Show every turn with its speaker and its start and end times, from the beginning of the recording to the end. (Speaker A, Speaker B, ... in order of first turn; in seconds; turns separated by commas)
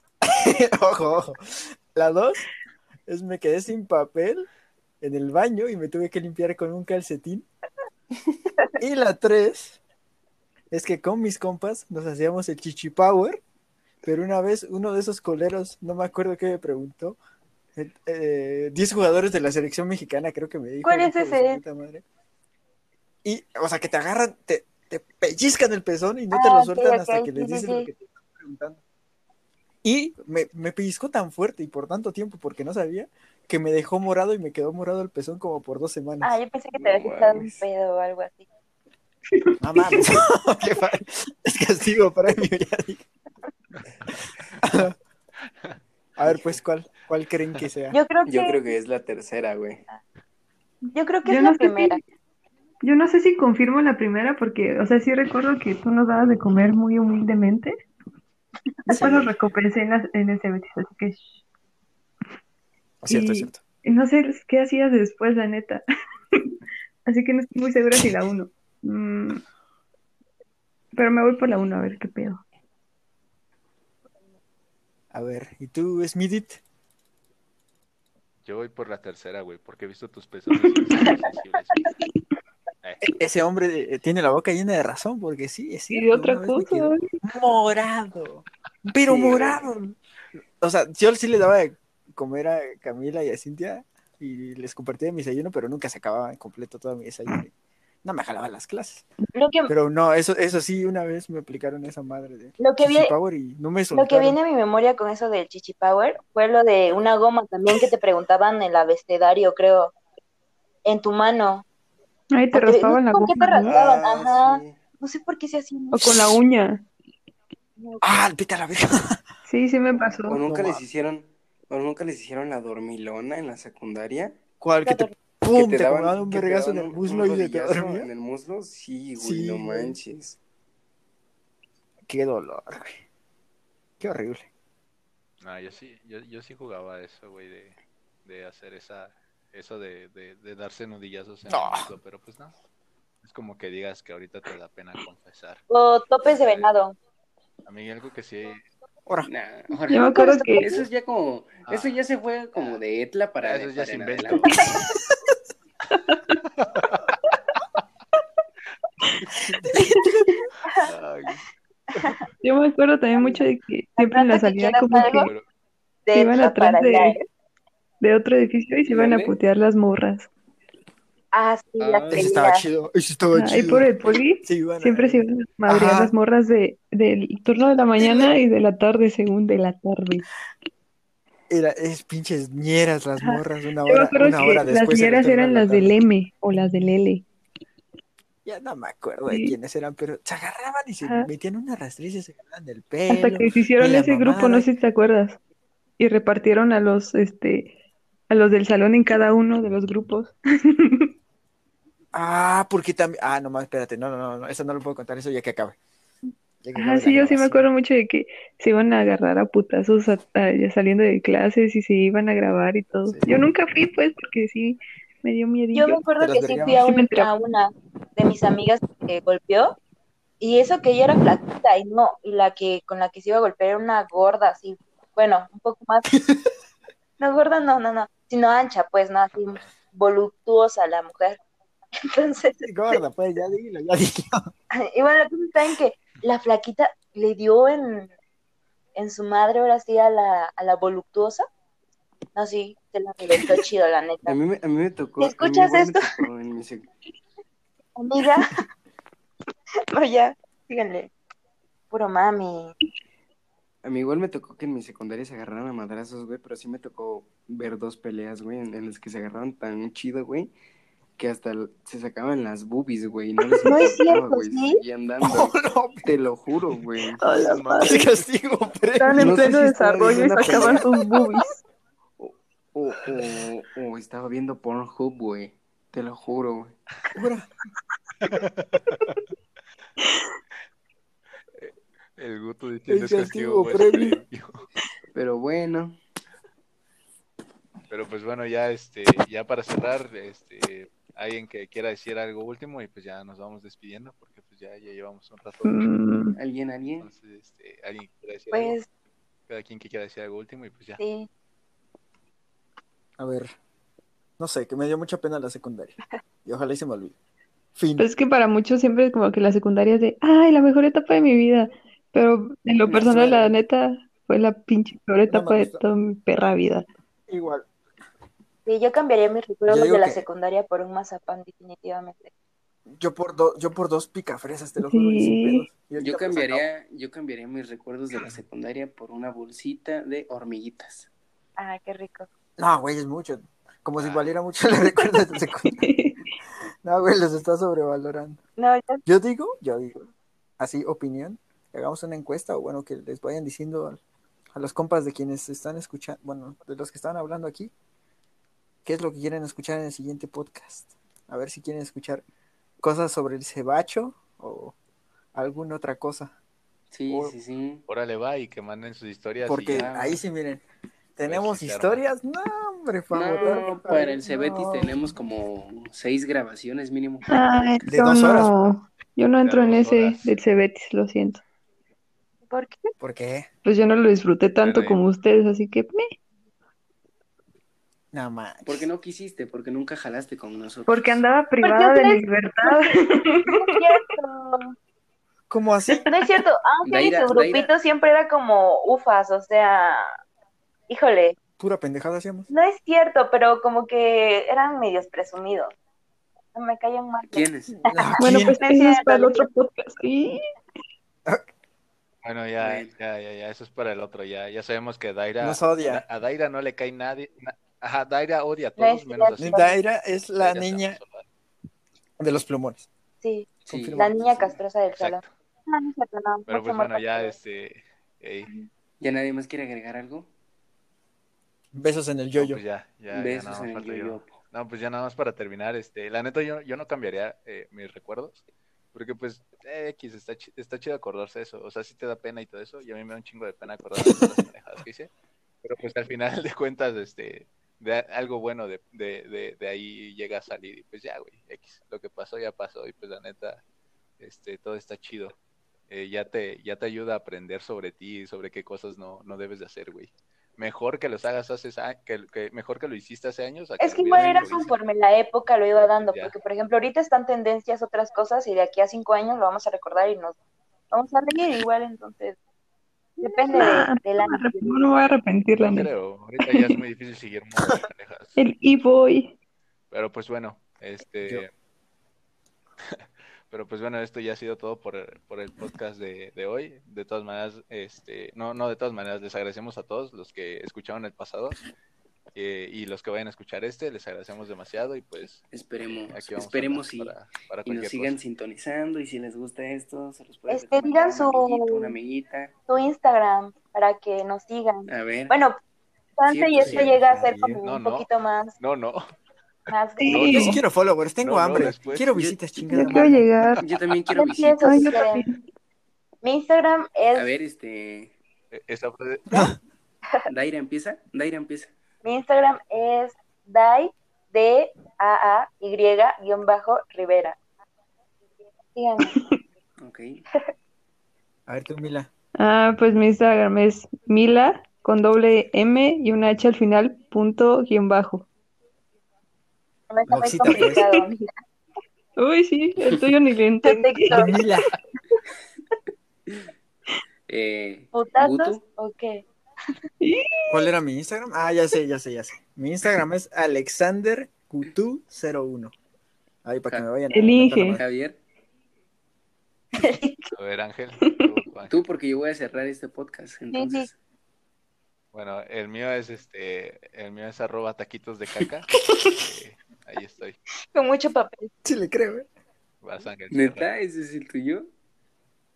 Speaker A: 0.2-2.5, Speaker A: 3.1-4.5, Speaker A: 5.0-7.5, Speaker A: 8.8-9.8, Speaker A: 10.7-13.4, Speaker A: 14.0-17.2, Speaker A: 17.8-22.0, Speaker B: 20.8-21.6, Speaker A: 23.2-28.8, Speaker B: 26.3-27.9, Speaker A: 29.8-36.3, Speaker B: 36.2-38.5, Speaker C: 36.8-37.6, Speaker A: 39.6-43.0, Speaker A: 44.6-45.0, Speaker A: 46.2-48.0, Speaker B: 47.9-48.7, Speaker C: 48.2-49.8, Speaker B: 50.9-52.0, Speaker D: 51.2-52.0, Speaker D: 52.8-57.7, Speaker A: 58.9-59.3, Speaker D: 58.9-61.2, Speaker A: 63.0-63.6, Speaker D: 63.1-65.8, Speaker D: 67.1-69.4, Speaker D: 71.0-72.4, Speaker A: 75.1-76.6, Speaker E: 78.5-81.8, Speaker E: 82.8-83.2, Speaker A: 83.0-90.0, Speaker D: 85.9-87.0, Speaker C: 89.0-89.6, Speaker A: 90.6-97.5, Speaker A: 98.0-99.0, Speaker B: 99.3-99.7, Speaker A: 99.7-104.4, Speaker B: 102.6-103.1, Speaker B: 103.9-109.9, Speaker B: 110.8-111.6, Speaker D: 112.3-113.7, Speaker B: 112.5-116.1, Speaker C: 113.6-114.8, Speaker D: 115.9-116.8, Speaker B: 117.8-118.1, Speaker A: 118.0-119.2, Speaker D: 119.5-120.4, Speaker B: 119.9-120.2, Speaker C: 120.3-124.4, Speaker A: 120.4-120.8, Speaker A: 124.6-128.1, Speaker B: 124.8-125.1, Speaker C: 125.5-130.4, Speaker A: 129.2-130.0, Speaker A: 132.1-133.0, Speaker A: 134.0-134.5, Speaker E: 135.4-142.5, Speaker A: 141.5-141.9, Speaker E: 143.2-145.6, Speaker B: 145.7-147.0, Speaker E: 146.2-146.7, Speaker E: 147.7-148.6, Speaker C: 149.2-154.5, Speaker D: 149.9-150.7, Speaker B: 150.1-150.8, Speaker E: 151.7-152.0, Speaker E: 152.6-152.8, Speaker E: 153.4-154.6, Speaker D: 155.9-156.4, Speaker E: 156.6-157.2, Speaker A: 159.4-160.3, Speaker E: 160.8-161.4, Speaker D: 162.4-165.3, Speaker B: 163.2-163.4, Speaker B: 164.0-165.3, Speaker E: 164.9-165.4, Speaker B: 166.1-167.2, Speaker D: 166.2-167.2, Speaker D: 168.0-170.3, Speaker C: 168.9-169.4, Speaker B: 171.3-172.7, Speaker C: 171.8-172.3, Speaker A: 172.1-173.9, Speaker D: 173.3-180.3, Speaker A: 174.4-176.1, Speaker A: 178.0-178.4, Speaker A: 181.5-186.0, Speaker D: 183.2-187.2, Speaker A: 186.5-186.9, Speaker A: 188.4-194.7, Speaker D: 189.3-189.6, Speaker D: 191.0-191.3, Speaker D: 193.1-195.4, Speaker D: 196.0-197.7, Speaker D: 198.3-201.1, Speaker A: 202.1-205.8, Speaker A: 206.6-207.7, Speaker D: 206.8-216.0, Speaker A: 213.1-213.4, Speaker B: 215.7-219.8, Speaker A: 216.2-216.8, Speaker D: 216.7-217.3, Speaker B: 220.4-226.1, Speaker A: 226.1-226.4, Speaker B: 227.2-231.4, Speaker E: 229.4-229.7, Speaker B: 232.1-233.0, Speaker A: 232.6-234.5, Speaker B: 234.7-238.1, Speaker B: 239.0-241.5, Speaker B: 242.3-244.4, Speaker C: 244.3-246.9, Speaker B: 245.2-246.2, Speaker B: 248.0-248.6, Speaker B: 249.9-251.1, Speaker B: 251.9-252.8, Speaker C: 253.8-260.5, Speaker C: 261.2-267.2, Speaker B: 263.6-264.8, Speaker A: 265.2-266.1, Speaker D: 267.2-268.0, Speaker E: 267.3-268.2, Speaker A: 267.8-269.7, Speaker D: 269.0-271.6, Speaker C: 269.2-270.9, Speaker A: 270.5-270.8, Speaker C: 272.2-276.8, Speaker A: 277.1-277.5, Speaker E: 278.2-279.2, Speaker E: 281.6-284.6, Speaker A: 282.9-284.2, Speaker C: 285.1-286.0, Speaker E: 287.9-295.9, Speaker D: 295.6-296.4, Speaker C: 296.4-297.1, Speaker E: 297.0-298.8, Speaker B: 298.5-298.9, Speaker E: 299.5-301.0, Speaker B: 301.0-301.3, Speaker A: 303.2-303.5, Speaker A: 304.4-307.1, Speaker A: 307.8-308.1, Speaker D: 308.0-316.9, Speaker C: 312.9-313.5, Speaker A: 315.3-315.8, Speaker A: 317.3-317.7, Speaker B: 318.7-322.3, Speaker A: 319.7-320.2, Speaker A: 322.9-326.7, Speaker D: 324.9-325.7, Speaker C: 326.0-331.1, Speaker B: 331.6-332.3, Speaker A: 332.6-335.9, Speaker E: 334.0-334.3, Speaker D: 335.7-336.2, Speaker A: 336.8-338.4, Speaker B: 338.6-339.0, Speaker A: 339.1-344.0, Speaker A: 344.5-347.7, Speaker A: 348.9-352.2, Speaker A: 352.8-354.8, Speaker A: 355.4-356.3, Speaker C: 356.9-357.8, Speaker A: 357.1-357.4, Speaker E: 357.9-359.9, Speaker A: 359.5-360.6, Speaker C: 359.7-360.2, Speaker A: 361.2-364.9, Speaker E: 361.2-362.1, Speaker C: 363.1-367.4, Speaker D: 367.3-371.4, Speaker A: 367.9-368.5, Speaker E: 369.4-370.3, Speaker B: 372.5-372.9, Speaker A: 373.0-373.5, Speaker D: 373.6-376.1, Speaker E: 374.6-375.0, Speaker A: 378.1-378.9, Speaker C: 378.6-381.2, Speaker D: 380.9-383.6, Speaker B: 381.6-384.8, Speaker A: 385.5-386.1, Speaker B: 386.0-390.1, Speaker C: 386.8-387.7, Speaker B: 390.9-391.4, Speaker A: 391.6-392.5, Speaker B: 392.5-395.7, Speaker B: 396.6-399.5, Speaker C: 397.3-397.8, Speaker A: 397.9-398.6, Speaker D: 398.2-400.4, Speaker E: 402.2-409.8, Speaker C: 402.6-402.9, Speaker A: 405.4-406.0, Speaker B: 408.8-409.7, Speaker A: 409.4-411.0, Speaker E: 410.3-411.3, Speaker A: 412.2-412.9, Speaker B: 413.2-417.3, Speaker C: 413.6-414.6, Speaker A: 413.7-414.1, Speaker E: 414.9-415.3, Speaker E: 416.5-418.5, Speaker C: 419.0-420.3, Speaker A: 421.7-422.6, Speaker E: 422.4-428.4, Speaker C: 423.1-424.4, Speaker E: 428.9-435.1, Speaker E: 435.6-443.6, Speaker E: 444.2-445.4, Speaker E: 445.9-454.7, Speaker B: 453.8-460.4, Speaker E: 455.8-456.3, Speaker B: 460.9-462.4, Speaker D: 463.2-465.9, Speaker B: 463.2-464.9, Speaker E: 465.6-468.4, Speaker D: 466.4-466.8, Speaker D: 468.4-469.3, Speaker E: 469.9-471.5, Speaker E: 472.9-481.6, Speaker E: 482.4-488.2, Speaker C: 485.5-492.5, Speaker B: 490.5-492.0, Speaker B: 492.7-495.6, Speaker C: 494.9-495.4, Speaker B: 496.2-498.6, Speaker C: 496.3-497.0, Speaker A: 496.6-497.6, Speaker E: 497.6-498.1, Speaker E: 498.6-499.1, Speaker B: 499.7-500.4, Speaker D: 500.0-500.6, Speaker E: 500.1-500.6, Speaker A: 500.3-503.6, Speaker E: 501.2-502.4, Speaker D: 502.7-503.6, Speaker C: 503.6-505.0, Speaker B: 504.1-505.3, Speaker D: 504.6-505.4, Speaker B: 506.2-507.3, Speaker C: 507.1-508.1, Speaker E: 508.5-509.4, Speaker C: 510.3-511.7, Speaker B: 512.0-517.4, Speaker B: 518.7-519.1, Speaker D: 519.0-519.4, Speaker C: 519.8-520.2, Speaker A: 521.5-522.1, Speaker D: 522.4-528.3, Speaker B: 529.9-531.3, Speaker A: 530.1-530.8, Speaker D: 530.5-531.0, Speaker D: 532.2-534.5, Speaker B: 533.6-534.4, Speaker A: 534.1-534.7, Speaker C: 537.3-538.6, Speaker B: 537.9-539.2, Speaker D: 540.0-540.7, Speaker A: 540.5-545.7, Speaker A: 546.5-547.8, Speaker D: 547.1-547.8, Speaker C: 547.7-548.2, Speaker B: 549.8-550.3, Speaker E: 550.3-551.8, Speaker C: 551.7-553.9, Speaker B: 553.5-553.9, Speaker E: 555.1-560.4, Speaker B: 560.7-561.5, Speaker A: 561.6-562.3, Speaker E: 562.8-563.7, Speaker C: 563.3-564.7